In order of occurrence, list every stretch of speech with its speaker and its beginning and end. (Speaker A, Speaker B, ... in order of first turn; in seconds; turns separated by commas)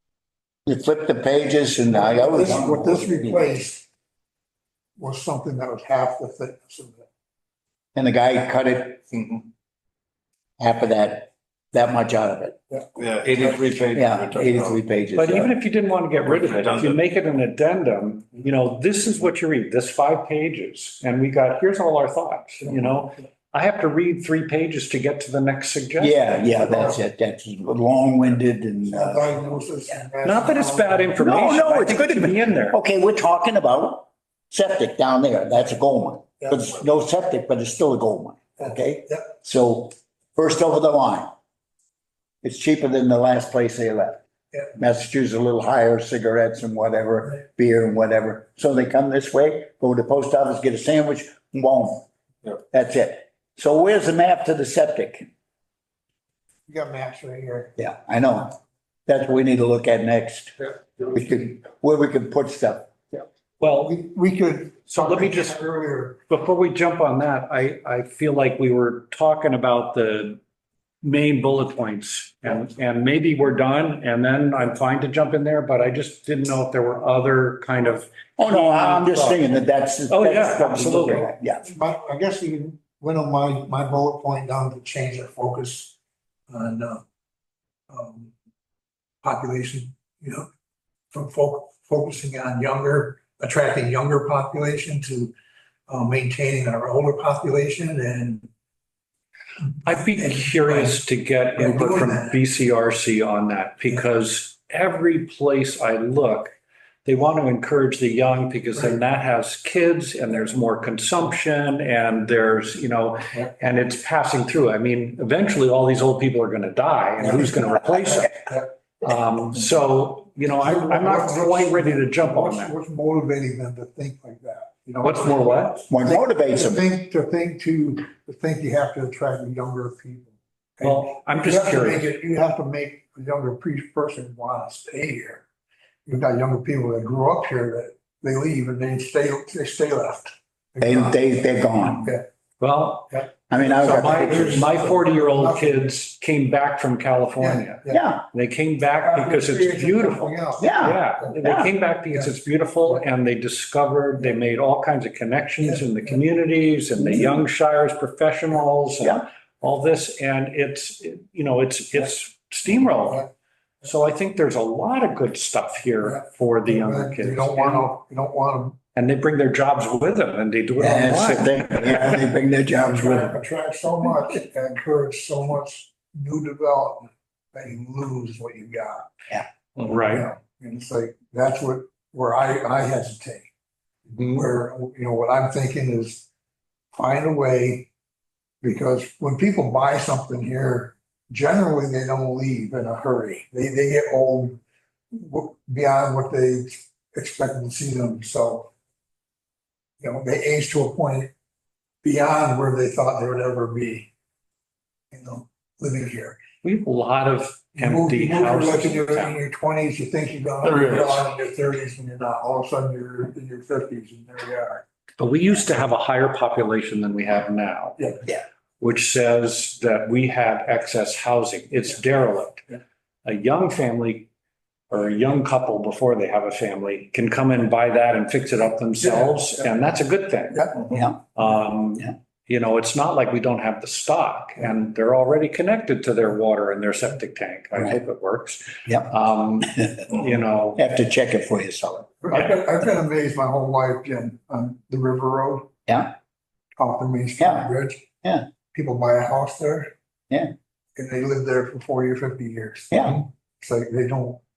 Speaker A: 0.7-3.4, Speaker B: 1.9-3.9, Speaker B: 5.0-7.1, Speaker A: 7.9-9.0, Speaker C: 9.1-9.4, Speaker A: 10.6-12.6, Speaker C: 13.0-14.8, Speaker A: 13.9-15.6, Speaker D: 15.1-26.5, Speaker C: 16.2-17.0, Speaker A: 26.0-29.3, Speaker B: 26.5-26.9, Speaker B: 28.8-31.2, Speaker D: 30.2-32.8, Speaker A: 31.2-41.3, Speaker B: 36.4-36.7, Speaker B: 38.6-39.2, Speaker A: 42.4-44.2, Speaker A: 44.8-52.1, Speaker A: 52.7-55.3, Speaker B: 56.7-57.7, Speaker A: 57.8-63.2, Speaker D: 63.6-63.9, Speaker B: 63.6-66.2, Speaker D: 64.9-65.6, Speaker D: 66.3-70.4, Speaker D: 71.0-81.3, Speaker A: 78.4-81.7, Speaker B: 81.6-85.9, Speaker B: 86.5-87.0, Speaker B: 87.9-88.3, Speaker B: 89.2-90.5, Speaker B: 91.1-95.3, Speaker B: 95.9-98.5, Speaker D: 99.8-106.5, Speaker B: 100.1-101.0, Speaker B: 101.6-102.4, Speaker D: 107.0-122.7, Speaker B: 117.2-118.7, Speaker B: 120.6-135.4, Speaker D: 125.0-125.8, Speaker A: 125.9-126.8, Speaker D: 130.8-132.1, Speaker B: 136.1-141.2, Speaker A: 140.8-142.1, Speaker D: 142.6-143.2, Speaker B: 143.1-145.9, Speaker A: 143.5-144.7, Speaker D: 143.8-163.3, Speaker B: 147.4-148.0, Speaker A: 147.9-148.2, Speaker B: 149.0-151.3, Speaker A: 150.6-151.7, Speaker B: 155.6-156.2, Speaker A: 159.0-159.2, Speaker B: 163.0-163.3, Speaker D: 163.8-167.9, Speaker B: 166.0-168.8, Speaker D: 168.9-172.2, Speaker A: 170.8-173.4, Speaker B: 172.8-179.1, Speaker D: 179.8-180.3, Speaker B: 179.9-183.5, Speaker D: 184.2-184.5, Speaker B: 184.2-186.2, Speaker B: 186.9-187.9, Speaker B: 188.6-194.6, Speaker B: 195.1-198.7, Speaker B: 200.0-201.3, Speaker B: 202.0-204.1, Speaker B: 205.1-206.4, Speaker D: 206.6-209.4, Speaker B: 207.8-214.8, Speaker C: 210.6-211.3, Speaker D: 215.2-218.0, Speaker D: 218.8-224.3, Speaker D: 224.9-240.8, Speaker B: 229.0-229.4, Speaker B: 230.5-230.8, Speaker A: 230.9-231.2, Speaker A: 239.6-240.0, Speaker A: 240.8-242.1, Speaker B: 242.2-245.7, Speaker A: 245.9-246.1, Speaker B: 246.8-248.1, Speaker A: 247.4-247.7, Speaker B: 248.7-249.9, Speaker B: 250.9-254.4, Speaker A: 252.9-253.2